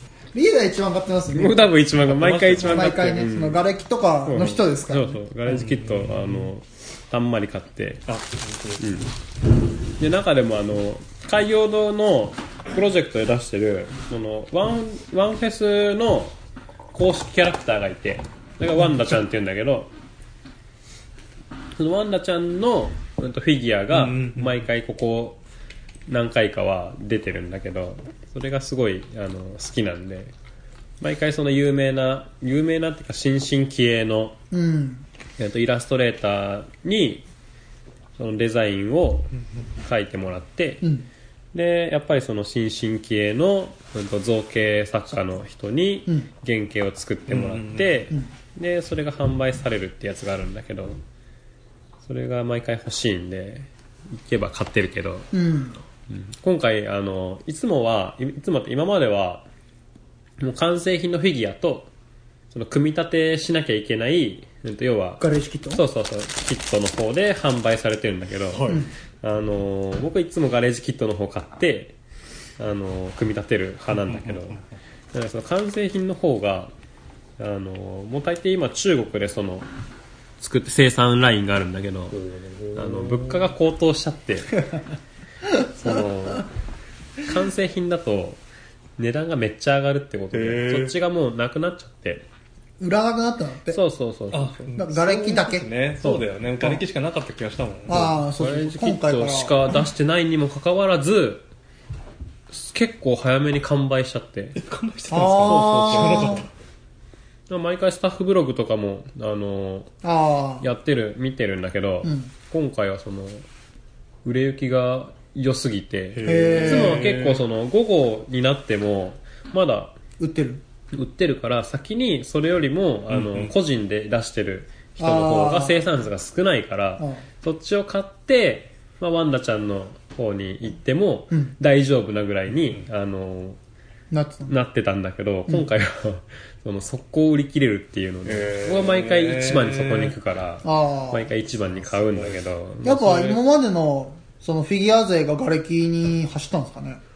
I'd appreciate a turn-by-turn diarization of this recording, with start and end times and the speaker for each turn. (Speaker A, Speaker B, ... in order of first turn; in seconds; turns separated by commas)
Speaker A: 0.3-1.7, Speaker B: 1.3-3.6, Speaker C: 2.0-3.2, Speaker A: 2.6-5.2, Speaker B: 4.2-8.1, Speaker C: 5.5-6.5, Speaker C: 8.1-8.8, Speaker B: 8.8-9.1, Speaker B: 10.0-16.3, Speaker B: 16.9-19.9, Speaker B: 21.8-25.4, Speaker C: 23.9-24.6, Speaker B: 26.1-30.3, Speaker B: 31.0-34.4, Speaker A: 34.5-35.0, Speaker B: 35.4-37.2, Speaker B: 38.2-40.9, Speaker A: 40.8-41.1, Speaker B: 41.5-51.0, Speaker C: 47.3-47.9, Speaker B: 52.0-55.3, Speaker A: 55.3-55.8, Speaker B: 56.1-59.5, Speaker B: 60.4-61.9, Speaker B: 62.5-72.0, Speaker A: 65.2-65.8, Speaker C: 68.5-68.8, Speaker B: 72.6-74.6, Speaker C: 73.9-74.6, Speaker B: 75.1-76.7, Speaker B: 77.4-79.7, Speaker B: 80.4-84.6, Speaker C: 82.1-83.5, Speaker B: 85.6-86.5, Speaker B: 87.2-88.4, Speaker B: 89.0-92.2, Speaker C: 90.3-91.0, Speaker A: 92.8-93.8, Speaker B: 93.7-94.7, Speaker C: 94.3-98.2, Speaker A: 94.8-95.7, Speaker B: 96.0-96.8, Speaker A: 97.9-99.5, Speaker B: 98.0-101.5, Speaker B: 102.5-104.6, Speaker C: 104.6-106.5, Speaker A: 105.1-106.5, Speaker B: 105.3-106.4, Speaker B: 107.5-109.9, Speaker A: 110.0-110.7, Speaker B: 110.6-113.5, Speaker A: 112.0-112.3, Speaker B: 114.2-120.0, Speaker C: 116.1-117.4, Speaker A: 116.2-117.1, Speaker A: 120.2-120.6, Speaker B: 120.9-133.6, Speaker C: 123.1-123.5, Speaker A: 125.0-125.9, Speaker A: 127.0-127.2, Speaker A: 134.1-134.6, Speaker B: 134.5-143.4, Speaker C: 138.2-140.2, Speaker A: 140.6-141.3, Speaker C: 141.6-142.4, Speaker A: 142.8-147.0